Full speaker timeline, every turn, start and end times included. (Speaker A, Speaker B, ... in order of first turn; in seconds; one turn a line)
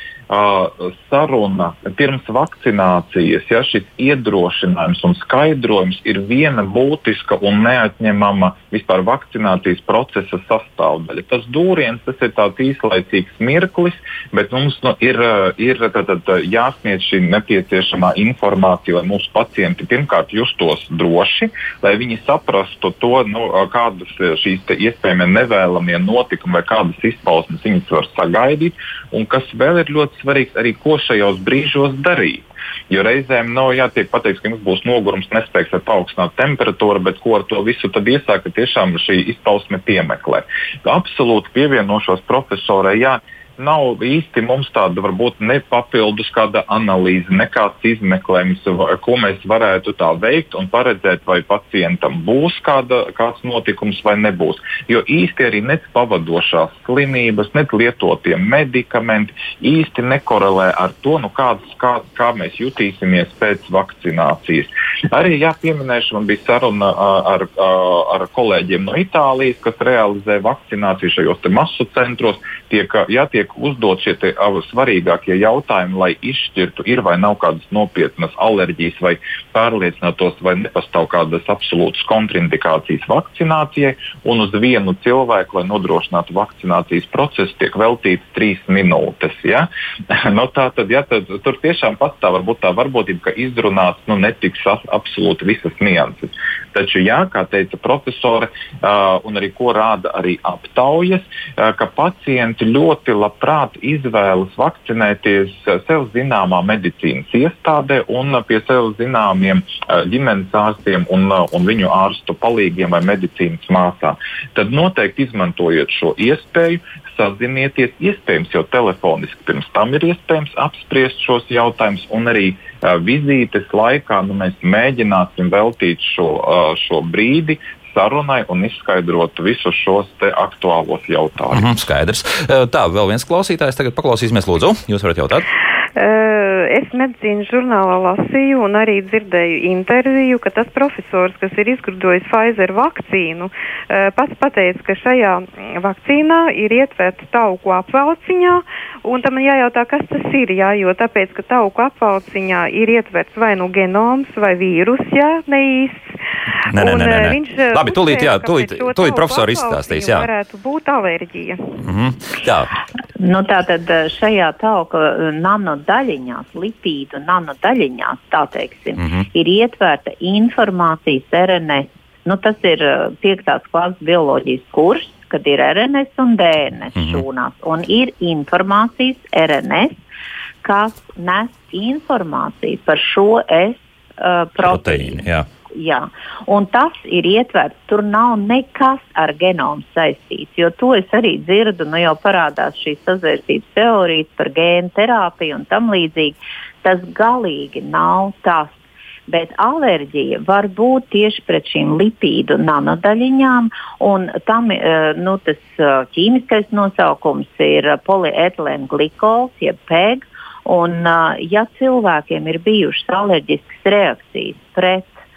Speaker A: 0.3-131.7
Speaker B: 131.5-135.5
Speaker C: 136.0-161.8
Speaker B: 156.7-160.3
Speaker B: 161.8-162.7
Speaker D: 163.2-180.0
Speaker B: 169.0-169.2
Speaker B: 177.0-177.2
Speaker D: 180.6-198.8
Speaker B: 184.6-185.5
Speaker D: 199.3-215.1